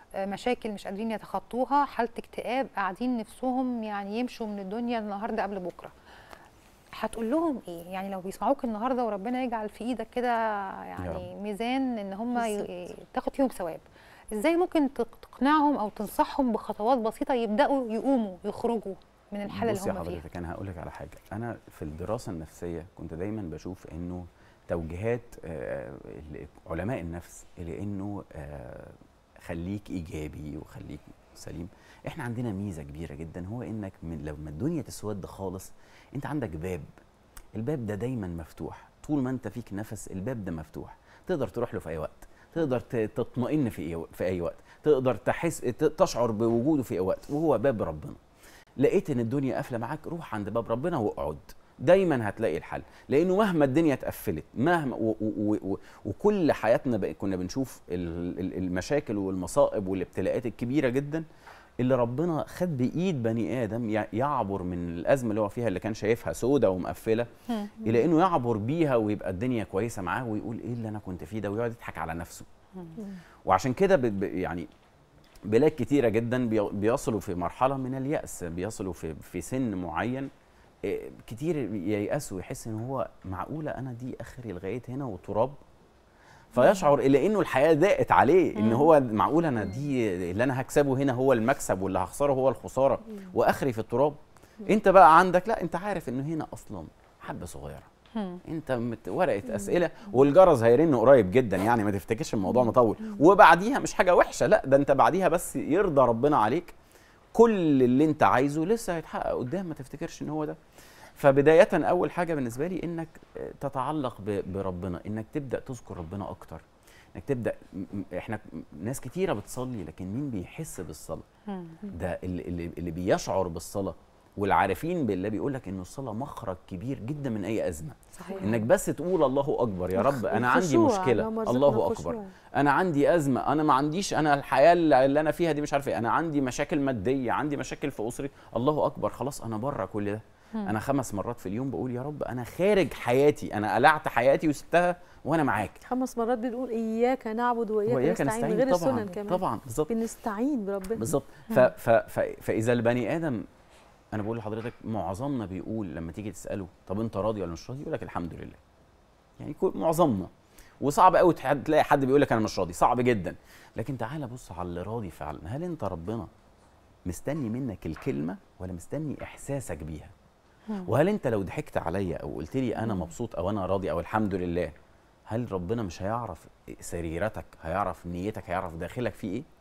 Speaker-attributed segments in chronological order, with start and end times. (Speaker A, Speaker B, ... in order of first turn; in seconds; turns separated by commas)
Speaker A: 0.2-5.9, Speaker A: 7.0-20.2, Speaker B: 11.0-11.3, Speaker C: 12.4-12.7, Speaker B: 19.5-36.9, Speaker B: 37.5-48.2, Speaker B: 48.8-61.2, Speaker B: 61.8-67.3, Speaker B: 67.8-72.5, Speaker B: 73.5-74.7, Speaker B: 75.5-80.3, Speaker B: 80.8-85.6, Speaker B: 86.5-97.9, Speaker A: 88.5-88.9, Speaker A: 98.2-98.4, Speaker B: 98.5-106.7, Speaker B: 107.3-110.6, Speaker B: 111.2-121.3, Speaker A: 121.5-121.8, Speaker B: 121.9-145.8, Speaker A: 128.2-128.5, Speaker C: 128.3-128.6, Speaker C: 129.9-132.3, Speaker C: 145.8-151.1, Speaker B: 147.9-149.9, Speaker B: 151.0-153.5, Speaker B: 154.1-158.6, Speaker B: 159.4-166.3, Speaker B: 167.1-170.1, Speaker B: 170.9-174.8, Speaker B: 175.3-179.5